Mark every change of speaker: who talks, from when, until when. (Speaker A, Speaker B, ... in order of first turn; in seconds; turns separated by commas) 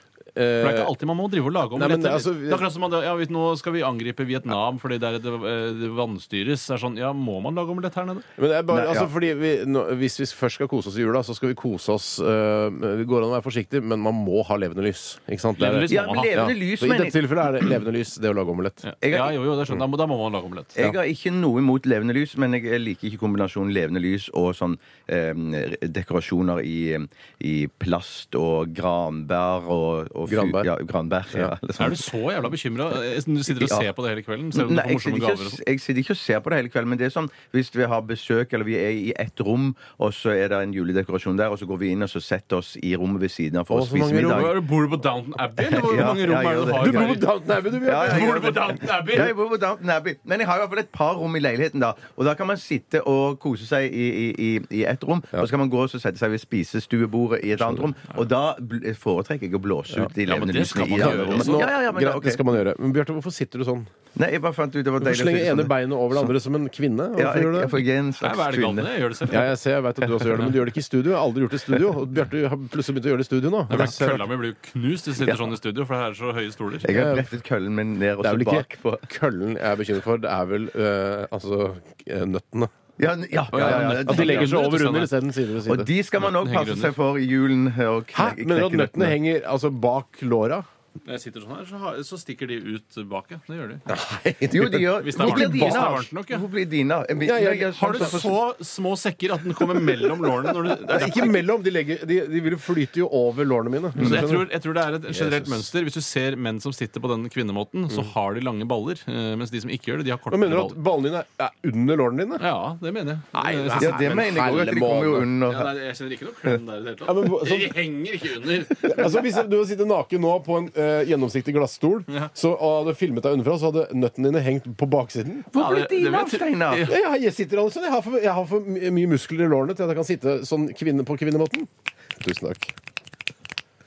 Speaker A: 0.3-0.9, Speaker B: 0.6-8.2, Speaker A: 1.7-2.7, Speaker A: 8.3-18.8, Speaker C: 8.7-9.1, Speaker B: 15.6-16.5, Speaker C: 15.9-17.8, Speaker B: 18.8-20.8, Speaker C: 19.0-19.4, Speaker C: 20.8-32.1, Speaker A: 30.3-30.7, Speaker B: 31.8-35.6, Speaker C: 33.5-33.9, Speaker C: 34.5-44.6, Speaker A: 43.7-44.6, Speaker B: 44.3-49.3, Speaker C: 45.6-47.2, Speaker A: 46.8-48.6, Speaker C: 47.8-62.5, Speaker A: 57.5-57.9, Speaker B: 60.2-61.7, Speaker A: 60.8-63.9, Speaker C: 64.2-66.3, Speaker A: 65.0-67.8, Speaker C: 67.2-68.9, Speaker B: 68.2-69.5, Speaker A: 69.3-74.3, Speaker B: 73.7-76.9, Speaker C: 75.2-75.5, Speaker A: 76.8-77.3, Speaker C: 76.8-79.0, Speaker A: 78.2-82.7, Speaker C: 83.0-84.5, Speaker B: 83.5-85.1, Speaker A: 83.5-85.9, Speaker C: 85.7-89.2, Speaker B: 86.2-86.9, Speaker A: 88.1-90.7, Speaker B: 91.0-93.8, Speaker A: 93.9-96.1, Speaker C: 94.5-98.3, Speaker B: 94.9-96.5, Speaker A: 97.2-98.3, Speaker B: 97.7-101.4, Speaker A: 99.5-104.5, Speaker B: 104.0-110.8, Speaker A: 105.1-105.7, Speaker A: 107.9-108.1, Speaker A: 110.3-112.5, Speaker B: 112.4-114.4, Speaker A: 113.3-115.3, Speaker C: 113.8-115.7, Speaker B: 115.4-119.3, Speaker A: 117.0-117.8, Speaker A: 118.7-125.5, Speaker C: 125.5-126.9, Speaker B: 125.5-127.0, Speaker A: 126.8-132.7